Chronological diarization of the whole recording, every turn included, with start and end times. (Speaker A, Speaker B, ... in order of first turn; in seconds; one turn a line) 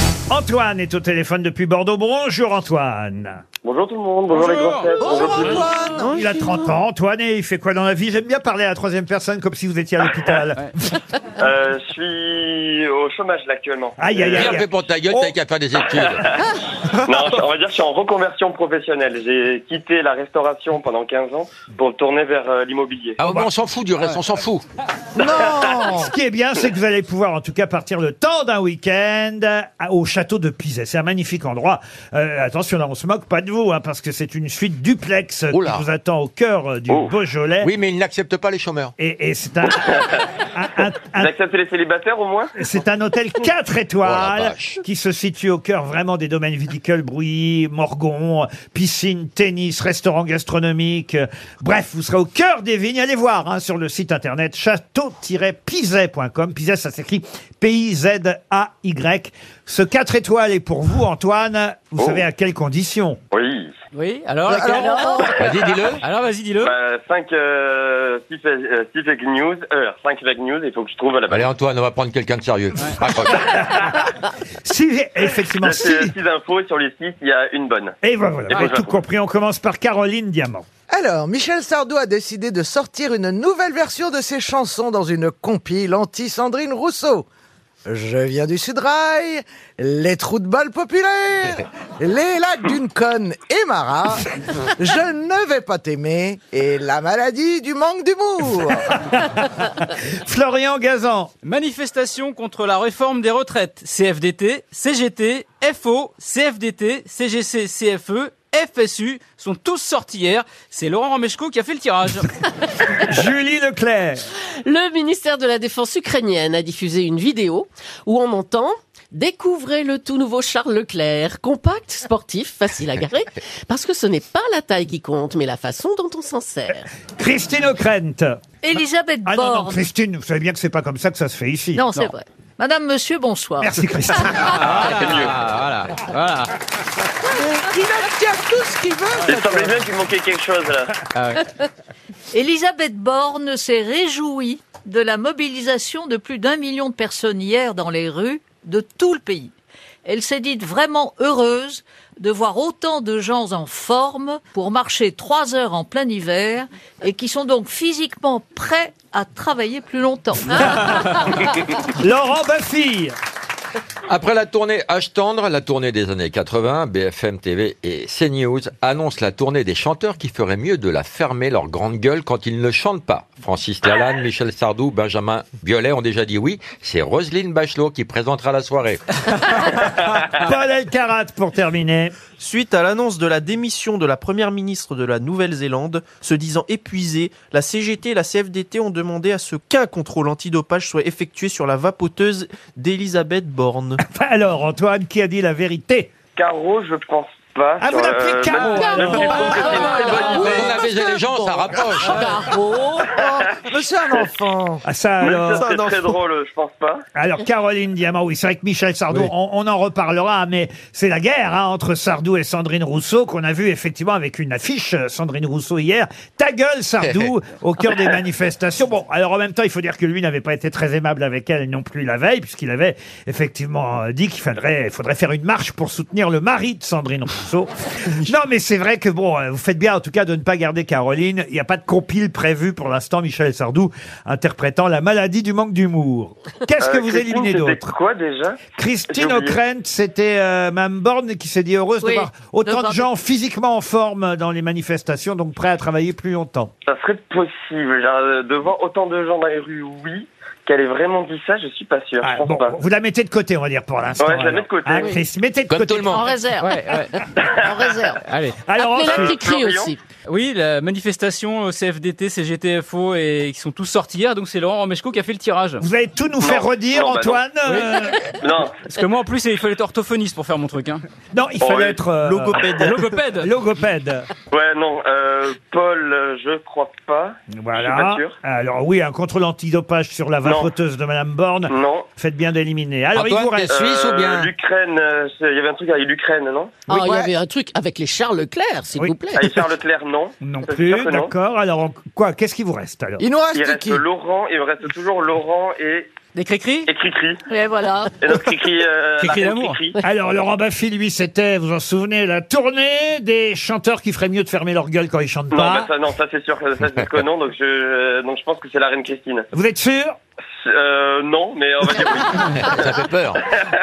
Speaker A: 0.3-3.4
Speaker B: 3.6-5.7
Speaker C: 4.3-5.4
Speaker D: 5.0-6.3
Speaker A: 6.0-10.7
Speaker B: 11.4-14.6
Speaker A: 14.0-15.4
Speaker E: 14.3-16.3
Speaker B: 15.8-16.0
Speaker B: 16.9-23.2
Speaker E: 23.2-24.6
Speaker A: 23.2-23.5
Speaker D: 25.2-26.1
Speaker B: 25.2-25.9
Speaker A: 26.0-37.7
Speaker E: 35.5-35.9
Speaker E: 37.6-38.9
Speaker A: 39.0-41.3
Speaker B: 41.1-42.5
Speaker A: 42.6-63.2
Speaker E: 44.0-44.8
Speaker B: 62.0-62.2
Speaker B: 63.3-63.7
Speaker C: 63.9-65.3
Speaker D: 64.5-65.3
Speaker F: 64.7-65.4
Speaker E: 65.3-66.0
Speaker B: 65.4-65.8
Speaker C: 66.0-66.7
Speaker B: 66.6-71.5
Speaker E: 71.3-73.6
Speaker A: 73.4-74.1
Speaker A: 74.6-76.1
Speaker B: 75.6-78.0
Speaker A: 78.0-80.7
Speaker B: 78.5-79.0
Speaker D: 80.9-87.3
Speaker D: 87.9-99.0
Speaker A: 99.5-101.3
Speaker C: 101.4-112.4
Speaker A: 113.0-114.3
Speaker G: 114.6-126.9
Speaker A: 127.1-128.4
Speaker F: 128.6-129.9
Speaker A: 129.2-131.8
Speaker F: 131.8-134.6
Speaker A: 133.6-135.1
Speaker C: 134.3-136.6
Speaker B: 134.7-135.4
Speaker D: 137.3-139.8
Speaker B: 139.3-141.0
Speaker C: 141.2-141.4
Speaker F: 142.3-149.5
Speaker F: 150.1-161.3
Speaker A: 161.8-163.1
Speaker E: 164.1-179.0
Speaker A: 180.3-182.2
Speaker H: 182.3-194.0
Speaker A: 194.1-196.1
Speaker B: 196.4-200.7
Speaker A: 197.8-200.7
Speaker F: 198.6-200.3
Speaker G: 199.1-203.0
Speaker E: 199.9-202.2
Speaker C: 202.0-202.4
Speaker D: 203.0-204.8
Speaker A: 204.8-206.1
Speaker B: 205.2-207.0
Speaker A: 207.2-237.9
Speaker E: 217.0-217.3
Speaker B: 236.8-239.6
Speaker A: 238.8-246.7
Speaker F: 242.0-243.1
Speaker B: 246.9-252.8
Speaker A: 252.2-256.3
Speaker B: 254.2-255.1
Speaker E: 255.7-256.3
Speaker F: 256.1-256.7
Speaker G: 256.3-256.7
Speaker C: 256.6-257.2
Speaker B: 257.4-257.7
Speaker F: 257.6-258.2
Speaker G: 257.7-258.2
Speaker C: 258.2-258.6
Speaker A: 258.6-259.5
Speaker G: 258.7-260.0
Speaker B: 259.0-259.9
Speaker C: 260.3-265.8
Speaker A: 265.8-268.2
Speaker B: 266.4-267.5
Speaker C: 267.6-271.0
Speaker B: 268.4-268.7
Speaker A: 271.3-272.7
Speaker B: 271.6-272.0
Speaker H: 272.2-273.1
Speaker C: 272.8-273.5
Speaker A: 273.3-274.3
Speaker B: 274.5-278.4
Speaker A: 277.6-283.8
Speaker B: 280.4-280.7
Speaker B: 281.7-282.1
Speaker E: 283.1-284.5
Speaker B: 283.7-286.8
Speaker G: 286.9-289.4
Speaker D: 286.9-287.3
Speaker A: 288.9-289.5
Speaker B: 289.3-291.3
Speaker A: 290.4-293.2
Speaker D: 293.2-294.0
Speaker B: 293.5-296.1
Speaker C: 296.4-296.9
Speaker B: 296.9-297.4
Speaker F: 297.5-298.1
Speaker B: 298.2-300.0
Speaker C: 299.2-299.8
Speaker A: 300.0-305.9
Speaker B: 305.5-309.5
Speaker A: 309.5-310.2
Speaker B: 310.6-312.9
Speaker E: 312.6-313.4